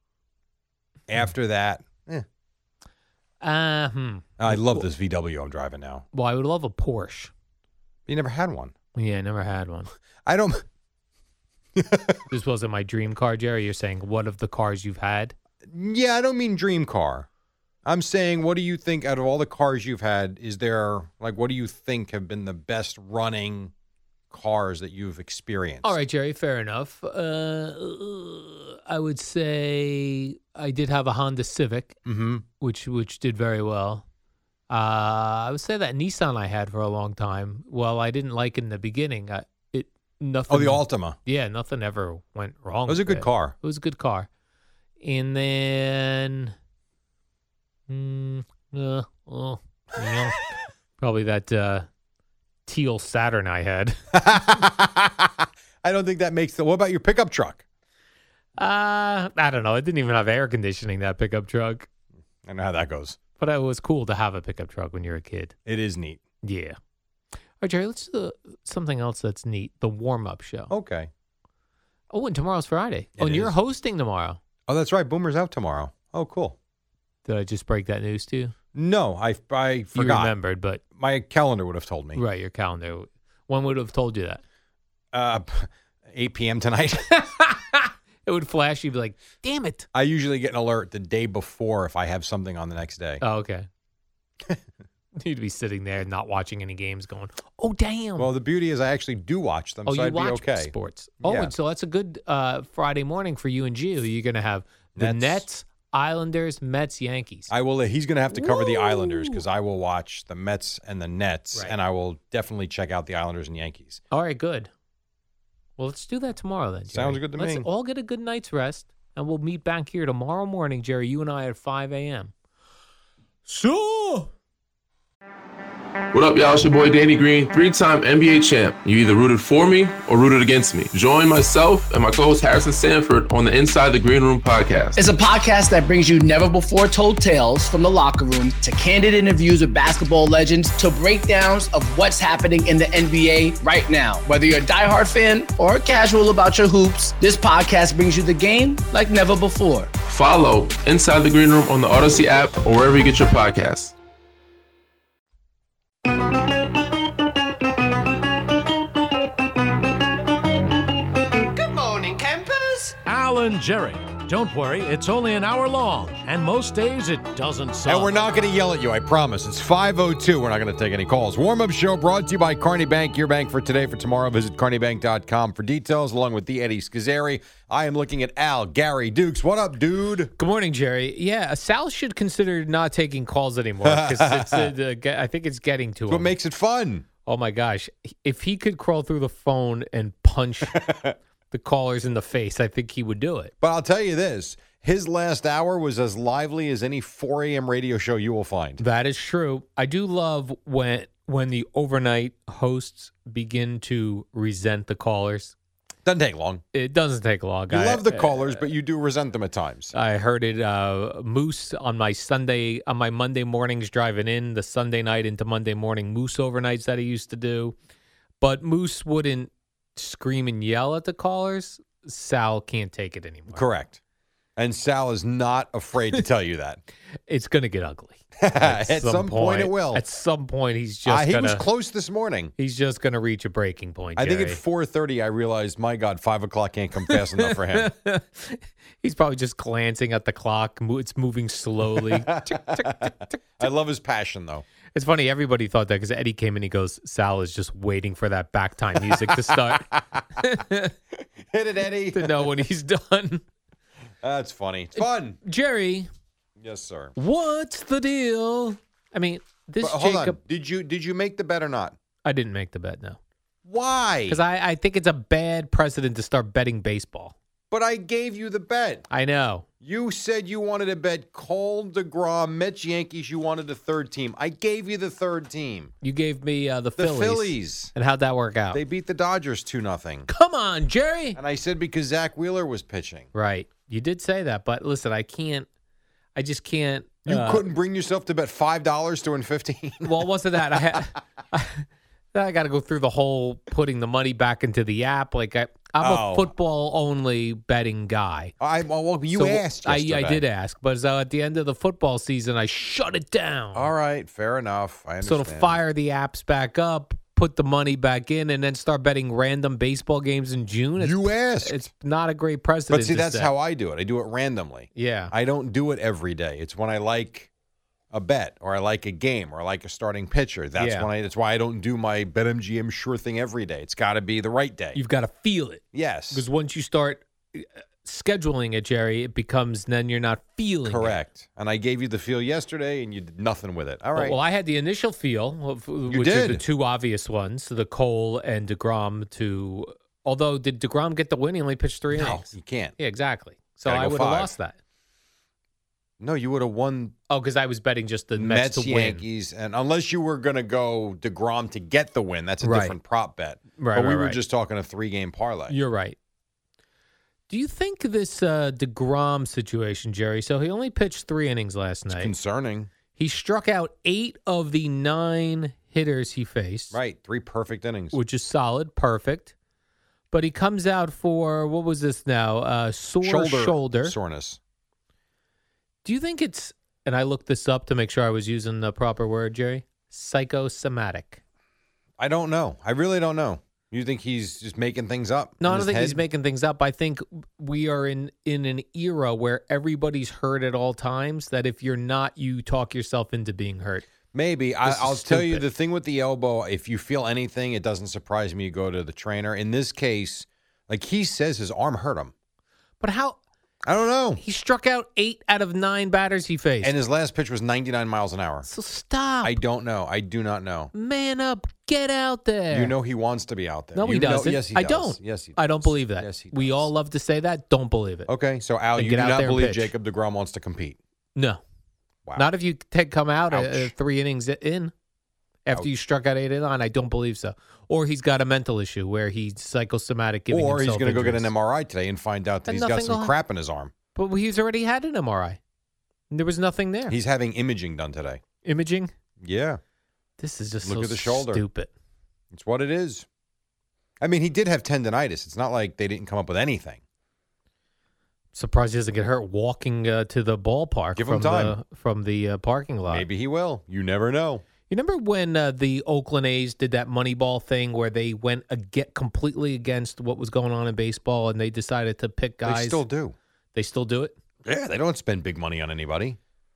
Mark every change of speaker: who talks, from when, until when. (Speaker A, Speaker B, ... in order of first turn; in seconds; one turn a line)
Speaker A: 1.1-2.2
Speaker B: 3.4-4.9
Speaker A: 4.4-6.0
Speaker B: 6.1-7.3
Speaker A: 8.1-8.7
Speaker B: 8.9-9.9
Speaker A: 10.2-10.6
Speaker A: 11.8-12.2
Speaker B: 12.3-15.3
Speaker A: 15.7-17.3
Speaker A: 17.8-23.7
Speaker A: 24.3-26.0
Speaker B: 25.8-32.0
Speaker A: 32.0-32.4
Speaker B: 32.6-34.0
Speaker B: 34.7-44.3
Speaker A: 40.5-41.2
Speaker A: 42.9-43.5
Speaker B: 45.0-46.5
Speaker B: 47.9-50.4
Speaker B: 51.0-51.9
Speaker B: 52.6-54.0
Speaker A: 54.1-57.6
Speaker B: 58.6-61.9
Speaker A: 62.4-63.2
Speaker B: 63.4-65.5
Speaker A: 65.7-66.2
Speaker B: 66.4-66.8
Speaker B: 67.6-70.7
Speaker A: 70.7-71.1
Speaker B: 72.1-74.4
Speaker A: 73.2-73.5
Speaker A: 74.7-76.6
Speaker B: 77.2-78.5
Speaker A: 78.7-80.3
Speaker B: 79.9-80.8
Speaker A: 80.9-82.2
Speaker B: 82.1-84.4
Speaker A: 85.1-87.1
Speaker B: 87.1-89.9
Speaker A: 89.9-93.2
Speaker B: 93.2-93.7
Speaker B: 95.2-98.3
Speaker A: 98.2-101.5
Speaker B: 99.8-107.5
Speaker A: 105.0-105.4
Speaker A: 107.5-114.0
Speaker B: 108.3-109.4
Speaker B: 114.1-114.7
Speaker B: 115.8-122.3
Speaker A: 116.9-117.7
Speaker B: 123.5-124.3
Speaker C: 126.1-135.0
Speaker D: 135.0-149.9
Speaker C: 150.1-153.9
Speaker A: 161.6-162.9
Speaker E: 163.0-168.1
Speaker A: 167.8-180.3
Speaker B: 180.4-186.3
Speaker A: 183.8-184.7
Speaker A: 186.1-187.1
Speaker B: 187.2-190.8
Speaker A: 190.7-191.2
Speaker B: 191.5-193.5
Speaker A: 193.6-198.8
Speaker B: 198.8-205.5
Speaker A: 206.0-206.6
Speaker B: 206.7-208.6
Speaker A: 207.7-209.9
Speaker B: 209.9-217.8
Speaker B: 218.4-223.7
Speaker A: 223.5-224.0
Speaker A: 224.6-226.8
Speaker B: 227.3-231.6
Speaker A: 228.4-230.0
Speaker A: 231.1-232.5
Speaker B: 232.6-234.6
Speaker A: 234.2-237.9
Speaker B: 237.1-243.7
Speaker A: 241.9-244.6
Speaker B: 244.9-250.9
Speaker A: 248.9-250.4
Speaker A: 251.2-252.5
Speaker B: 252.1-253.4
Speaker A: 254.2-255.4
Speaker B: 255.0-256.1
Speaker A: 256.6-257.1
Speaker B: 257.1-260.4
Speaker A: 259.8-261.9
Speaker B: 262.2-263.2
Speaker A: 263.6-264.4
Speaker B: 264.3-267.3
Speaker A: 267.7-269.0
Speaker B: 269.1-269.7
Speaker A: 269.8-275.9
Speaker B: 276.0-278.8
Speaker A: 277.0-277.9
Speaker A: 278.7-280.3
Speaker B: 280.3-281.4
Speaker A: 281.4-283.3
Speaker B: 283.3-285.7
Speaker B: 286.4-287.7
Speaker A: 287.2-290.3
Speaker B: 290.0-298.5
Speaker A: 296.0-296.5
Speaker A: 298.6-300.4
Speaker B: 299.3-303.9
Speaker A: 303.7-305.8
Speaker B: 305.2-313.5
Speaker A: 311.0-311.9
Speaker A: 312.9-317.5
Speaker B: 314.9-315.3
Speaker A: 318.1-325.0
Speaker B: 320.8-321.1
Speaker B: 324.9-331.2
Speaker A: 325.9-326.4
Speaker A: 330.8-334.4
Speaker B: 334.1-344.8
Speaker A: 336.1-336.6
Speaker A: 342.1-342.9
Speaker A: 343.8-344.5
Speaker A: 346.2-347.1
Speaker B: 347.3-349.2
Speaker A: 348.4-355.8
Speaker B: 352.6-353.0
Speaker B: 353.8-354.4
Speaker B: 355.7-356.2
Speaker B: 357.5-362.3
Speaker A: 362.1-362.9
Speaker B: 363.1-367.0
Speaker A: 366.9-368.2
Speaker B: 368.1-369.5
Speaker B: 370.3-374.1
Speaker A: 373.2-374.6
Speaker B: 376.0-381.4
Speaker A: 382.2-386.2
Speaker B: 385.6-394.1
Speaker A: 394.3-402.3
Speaker B: 394.8-395.6
Speaker B: 403.0-403.4
Speaker A: 403.8-404.4
Speaker B: 404.4-406.9
Speaker A: 406.8-408.7
Speaker B: 408.6-409.6
Speaker A: 409.4-410.9
Speaker B: 410.9-412.9
Speaker A: 412.7-416.9
Speaker B: 413.9-418.3
Speaker A: 418.3-421.0
Speaker B: 418.9-419.9
Speaker B: 421.4-421.6
Speaker B: 422.4-424.9
Speaker A: 423.5-423.9
Speaker B: 425.6-431.5
Speaker A: 430.5-433.9
Speaker B: 432.7-433.3
Speaker B: 434.1-435.6
Speaker B: 436.3-437.2
Speaker A: 437.1-438.4
Speaker B: 438.6-439.1
Speaker A: 439.4-439.8
Speaker B: 440.4-441.9
Speaker A: 440.8-441.6
Speaker A: 442.5-443.2
Speaker A: 444.2-447.0
Speaker B: 448.5-453.2
Speaker A: 451.1-451.8
Speaker A: 453.1-454.6
Speaker B: 454.9-463.0
Speaker A: 462.6-463.4
Speaker B: 463.7-464.4
Speaker A: 464.6-466.4